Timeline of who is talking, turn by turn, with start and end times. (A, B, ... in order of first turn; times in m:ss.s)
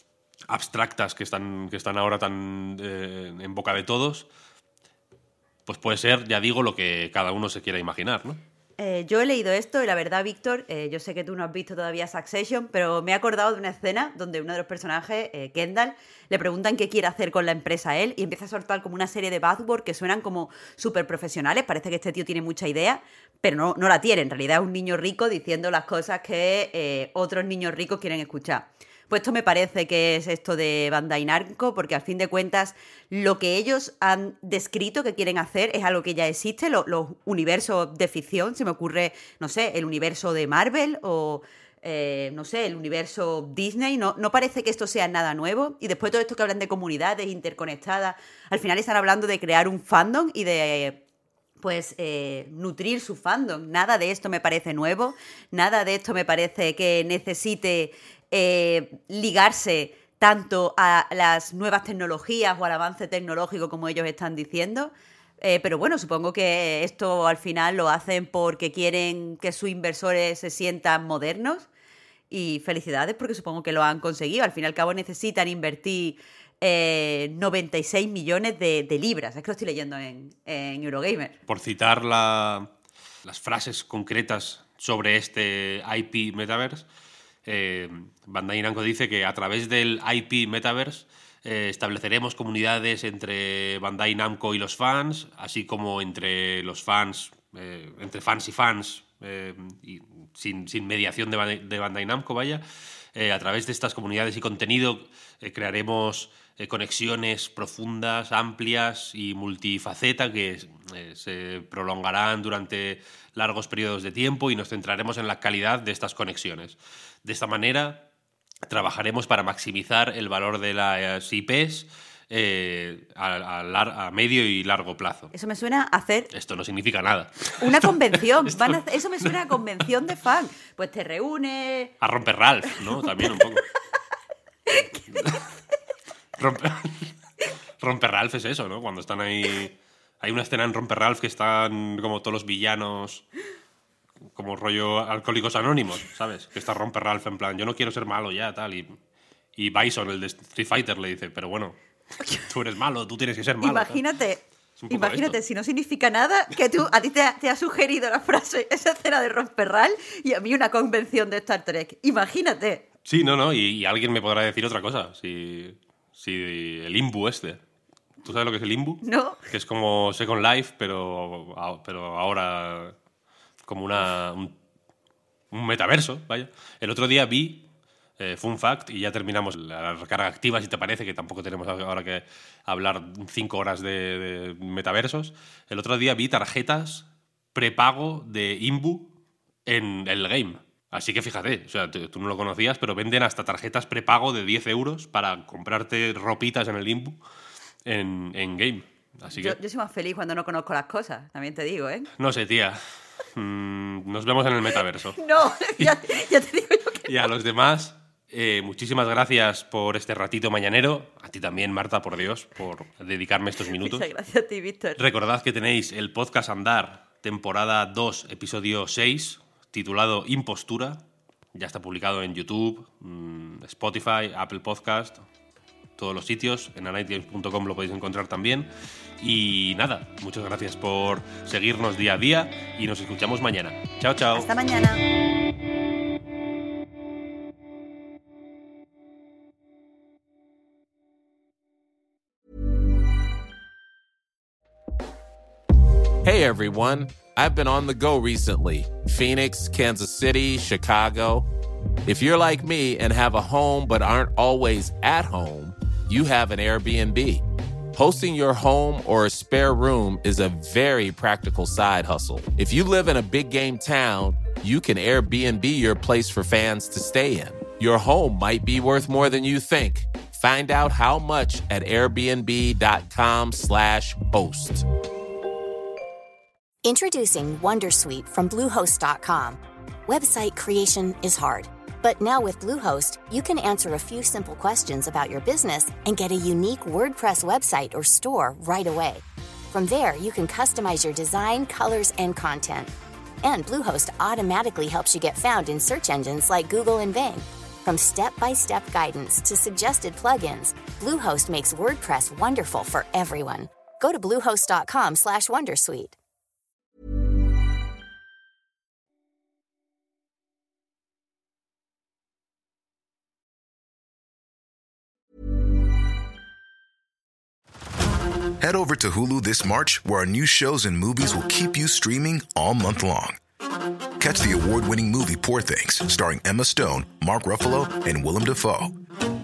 0:00.5-0:04.3 A
0:05.7-0:08.4 A
0:08.8-0:51.0 B
0:51.6-1:11.7 B
1:12.3-1:21.4 B
1:21.5-1:22.7 A
1:23.2-1:26.9 A
1:27.5-1:42.6 A
1:43.2-1:58.1 A
1:58.7-2:05.3 A
2:05.3-2:06.3 B
2:06.3-2:09.6 A
2:07.6-2:11.9 B
2:12.0-2:13.7 A
2:13.0-2:13.4 B
2:14.7-2:15.0 B
2:15.1-2:15.4 A
2:16.4-2:17.1 A
2:17.8-2:23.2 A
2:24.4-2:29.0 A
2:29.6-2:31.8 A
2:32.5-2:34.0 A
2:33.6-2:42.8 B
2:34.8-2:35.4 A
2:43.1-2:47.6 A
2:48.2-2:53.0 A
2:49.0-2:49.4 B
2:53.6-2:54.6 A
2:55.5-2:57.7 A
2:58.2-3:09.1 A
3:09.7-3:17.2 A
3:17.9-3:19.6 A
3:19.3-3:22.1 B
3:22.2-3:22.8 A
3:23.3-3:25.2 A
3:25.2-3:27.1 B
3:25.8-3:26.1 A
3:27.0-3:34.1 A
3:33.7-3:35.0 B
3:35.0-3:45.2 A
3:46.0-3:54.5 A
3:54.3-3:55.0 B
4:06.2-4:11.5 C
4:12.1-4:17.4 C
4:17.9-4:34.8 C
4:36.8-4:52.9 D
4:53.4-5:06.2 D
5:18.6-5:23.4 E
5:24.2-5:28.9 E